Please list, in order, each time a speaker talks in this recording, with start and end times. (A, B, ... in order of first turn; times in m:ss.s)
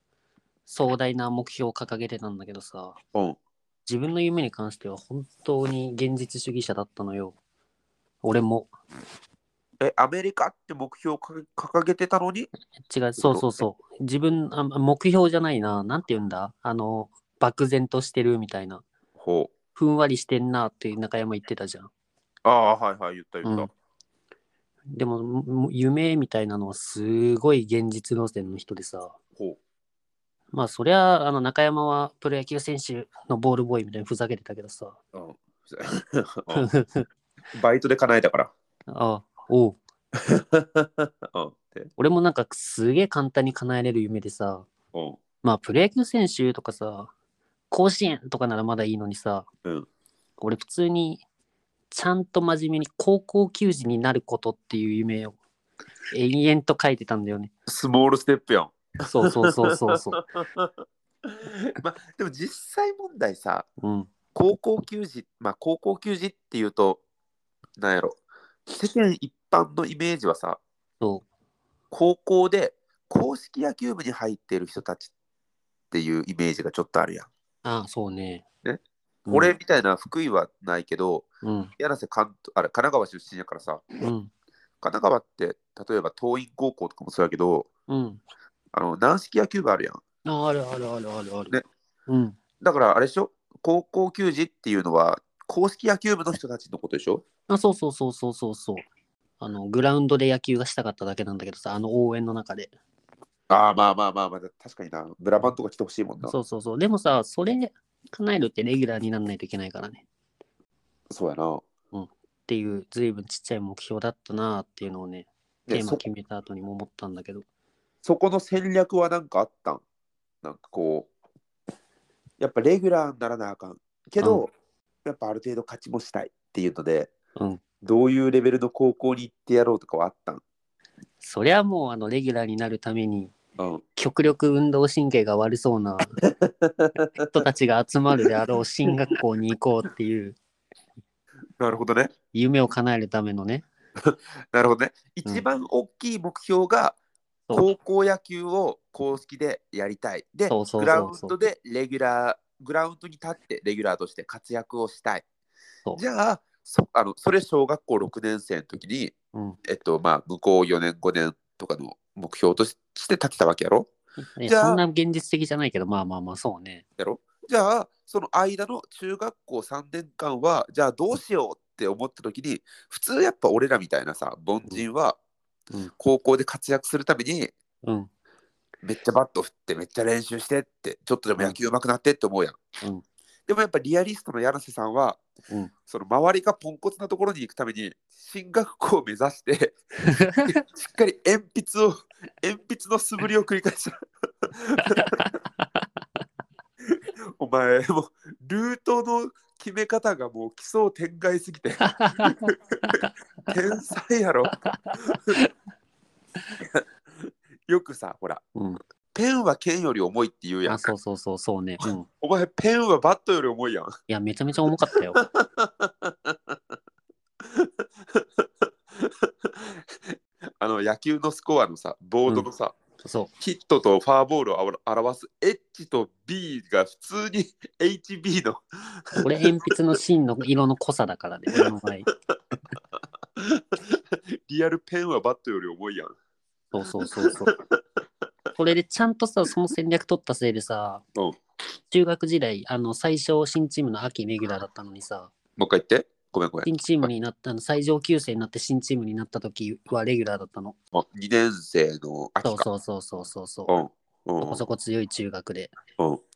0:00.7-0:03.0 A
0:03.9-0:07.4 A
0:08.2-0:08.7 A
0:09.8-0:12.5 B
0:12.9-0:18.8 A
0:13.2-0:13.5 B
0:19.2-0:19.5 B
0:19.7-0:21.9 A
0:22.4-0:23.7 B
0:23.4-0:23.7 A
0:24.9-0:29.1 A
0:30.5-0:35.0 A
0:35.1-0:36.7 B
0:36.5-0:37.0 A
0:37.5-0:38.5 B
0:38.9-0:39.8 A
0:40.2-0:41.9 B
0:42.0-0:44.7 A
0:44.9-0:45.2 B
0:45.4-0:47.1 A
0:47.7-0:49.5 A
0:50.4-0:51.2 A
0:51.9-0:55.4 A
0:56.1-0:57.5 A
0:57.7-1:00.7 B
0:59.0-1:00.2 A
1:01.3-1:03.7 B
1:03.8-1:04.1 A
1:04.3-1:07.0 B
1:07.8-1:10.6 B
1:11.0-1:11.2 A
1:11.9-1:15.1 B
1:15.9-1:17.3 B
1:17.6-1:18.4 A
1:18.6-1:21.2 B
1:19.3-1:19.5 A
1:21.4-1:21.7 A
1:21.8-1:23.9 B
1:24.0-1:24.3 A
1:24.8-1:27.7 B
1:27.9-1:28.2 A
1:28.7-1:30.0 B
1:30.2-1:32.4 A
1:32.6-1:37.2 B
1:37.5-1:38.9 A
1:39.4-1:42.7 A
1:43.5-1:46.3 B
1:46.2-1:50.0 A
1:51.1-1:51.6 B
1:51.9-1:57.4 A
1:55.7-1:56.0 B
1:58.0-1:59.8 B
2:00.4-2:01.1 B
2:02.4-2:04.5 B
2:05.0-2:07.1 B
2:07.4-2:07.6 A
2:07.8-2:10.4 B
2:11.2-2:13.3 A
2:13.6-2:13.8 B
2:14.0-2:16.2 A
2:16.2-2:17.2 B
2:17.1-2:20.4 A
2:21.6-2:22.1 B
2:22.3-2:23.6 A
2:24.0-2:27.0 B
2:27.5-2:35.2 B
2:30.5-2:31.4 A
2:35.9-2:39.1 B
2:39.6-2:43.9 B
2:44.2-2:46.8 A
2:44.4-2:44.8 B
2:47.0-2:55.2 B
2:56.0-2:57.5 B
2:57.8-2:58.1 A
2:58.8-3:02.6 B
3:03.5-3:05.2 B
3:05.9-3:09.8 B
3:10.4-3:14.0 B
3:14.6-3:15.2 B
3:15.0-3:15.3 A
3:17.4-3:25.4 B
3:21.8-3:22.3 A
3:24.6-3:25.5 A
3:26.6-3:28.4 B
3:28.5-3:28.8 A
3:29.1-3:30.9 B
3:30.7-3:32.1 A
3:32.2-3:33.9 B
3:34.1-3:35.2 A
3:35.2-3:36.6 B
3:37.4-3:38.4 B
3:39.0-3:39.9 B
3:40.6-3:42.8 B
3:43.0-3:43.3 A
3:43.4-3:48.6 B
3:49.2-3:52.1 A
3:53.4-3:56.1 B
3:56.7-3:57.5 A
3:57.2-3:57.8 B
3:58.6-4:01.0 A
4:01.9-4:05.3 A
4:05.6-4:07.1 B
4:06.6-4:10.7 A
4:10.9-4:12.6 B
4:12.4-4:13.7 A
4:13.7-4:14.6 B
4:14.4-4:15.7 A